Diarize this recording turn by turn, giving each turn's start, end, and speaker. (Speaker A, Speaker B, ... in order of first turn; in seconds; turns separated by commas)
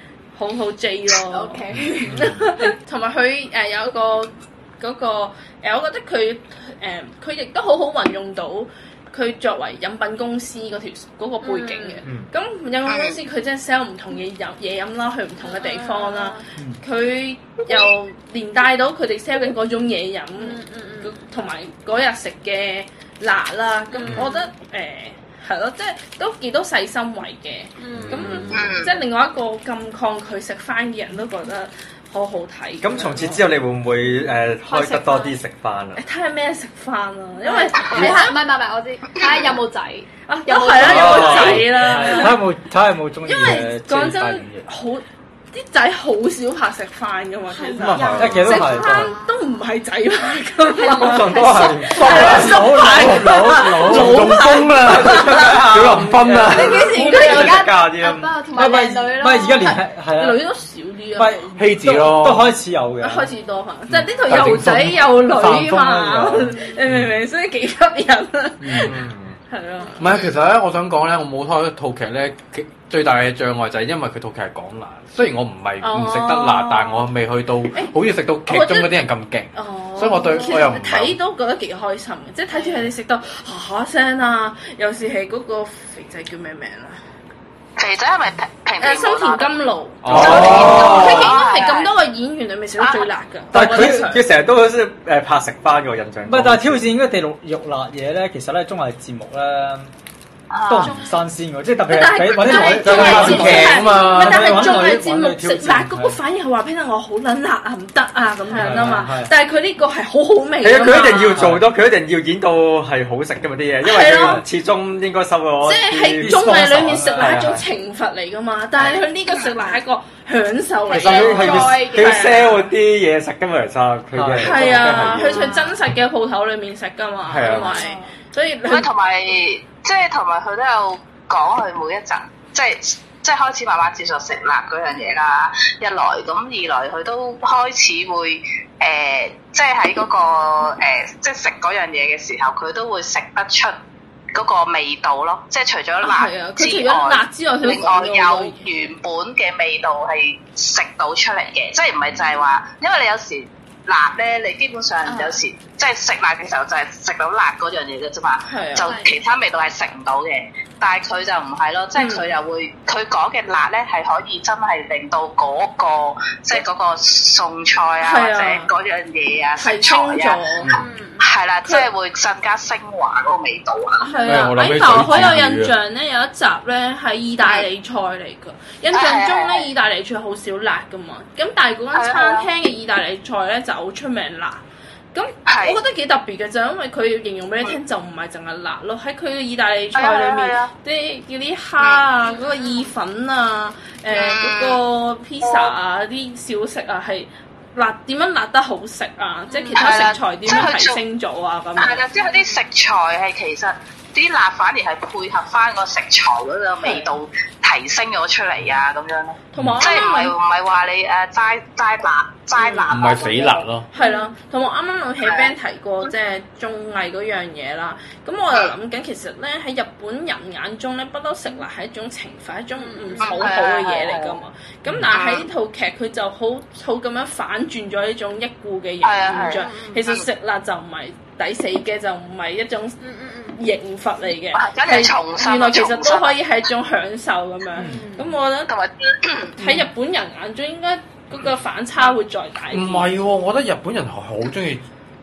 Speaker A: 0.3-33.4, Speaker B: 1.2-2.3, Speaker C: 2.1-2.4, Speaker B: 11.4-12.1, Speaker D: 12.9-13.2, Speaker B: 15.4-16.4, Speaker B: 20.4-21.2, Speaker B: 23.9-24.5, Speaker B: 27.8-28.6, Speaker C: 28.0-28.7, Speaker E: 28.0-28.5, Speaker D: 28.5-28.9, Speaker C: 32.8-36.0, Speaker A: 34.7-35.1, Speaker B: 35.0-35.3, Speaker A: 36.0-38.4, Speaker B: 37.4-42.3, Speaker A: 40.3-42.4, Speaker C: 40.8-41.7, Speaker F: 40.8-44.7, Speaker A: 43.2-55.6, Speaker B: 47.5-49.4, Speaker C: 47.8-48.6, Speaker F: 47.8-49.1, Speaker B: 50.8-51.7, Speaker C: 50.9-53.1, Speaker E: 51.9-56.9, Speaker F: 52.1-54.5, Speaker C: 54.8-58.4, Speaker F: 55.1-56.1, Speaker B: 56.5-59.8, Speaker A: 56.8-57.6, Speaker F: 58.5-60.4, Speaker A: 60.2-61.3, Speaker F: 61.1-63.3, Speaker E: 61.5-62.5, Speaker A: 63.0-69.0, Speaker E: 63.9-65.1, Speaker F: 65.2-66.6, Speaker B: 66.5-66.8, Speaker C: 68.8-69.4, Speaker A: 69.5-70.0, Speaker E: 70.0-81.2, Speaker A: 75.8-77.1, Speaker A: 78.5-79.0, Speaker A: 79.5-87.0, Speaker B: 80.2-80.6, Speaker B: 82.5-82.9, Speaker D: 87.8-89.5, Speaker A: 88.8-94.3, Speaker E: 90.0-91.2, Speaker C: 90.1-91.2, Speaker D: 90.1-91.9, Speaker D: 92.8-93.1, Speaker C: 93.5-96.8, Speaker F: 93.5-94.1, Speaker F: 96.2-99.9, Speaker D: 100.5-101.0, Speaker F: 100.7-106.2, Speaker A: 101.9-111.5, Speaker E: 102.8-104.8, Speaker C: 102.9-103.7, Speaker F: 108.5-109.3, Speaker C: 110.6-117.6, Speaker F: 111.3-111.6, Speaker A: 113.8-114.4, Speaker F: 114.2-114.4, Speaker A: 115.6-122.7, Speaker F: 116.2-117.5, Speaker B: 120.9-122.5, Speaker C: 120.9-125.5, Speaker F: 124.1-125.1, Speaker A: 124.4-128.9, Speaker B: 125.2-125.8, Speaker C: 127.3-127.8, Speaker B: 127.4-128.1, Speaker D: 128.7-143.7, Speaker D: 144.3-174.1, Speaker A: 146.0-148.7, Speaker B: 155.1-155.4, Speaker A: 158.5-158.9, Speaker B: 158.8-159.1, Speaker A: 161.9-162.3, Speaker A: 168.0-168.7, Speaker A: 169.6-170.7, Speaker B: 170.7-171.2, Speaker A: 174.0-184.6, Speaker E: 174.2-175.7, Speaker D: 178.9-179.7, Speaker D: 181.9-182.5, Speaker A: 185.1-202.0, Speaker D: 185.4-185.8, Speaker D: 189.9-190.7, Speaker D: 191.8-192.0, Speaker B: 192.2-192.9, Speaker D: 194.1-194.8, Speaker D: 195.4-195.7, Speaker B: 199.5-200.1, Speaker D: 199.7-201.0, Speaker D: 201.8-213.7, Speaker B: 202.1-202.6, Speaker A: 209.5-210.3, Speaker A: 212.6-212.9, Speaker B: 212.6-212.9, Speaker E: 212.9-213.9, Speaker A: 213.9-233.0, Speaker B: 213.9-214.3, Speaker D: 215.2-215.5, Speaker B: 222.7-223.5, Speaker D: 223.2-224.4, Speaker D: 225.1-225.5, Speaker D: 229.0-230.2, Speaker B: 229.3-230.0, Speaker B: 233.0-233.6, Speaker A: 233.6-238.7, Speaker D: 234.5-236.4, Speaker B: 237.8-238.3, Speaker D: 238.7-239.6, Speaker A: 239.6-243.1, Speaker E: 242.7-244.8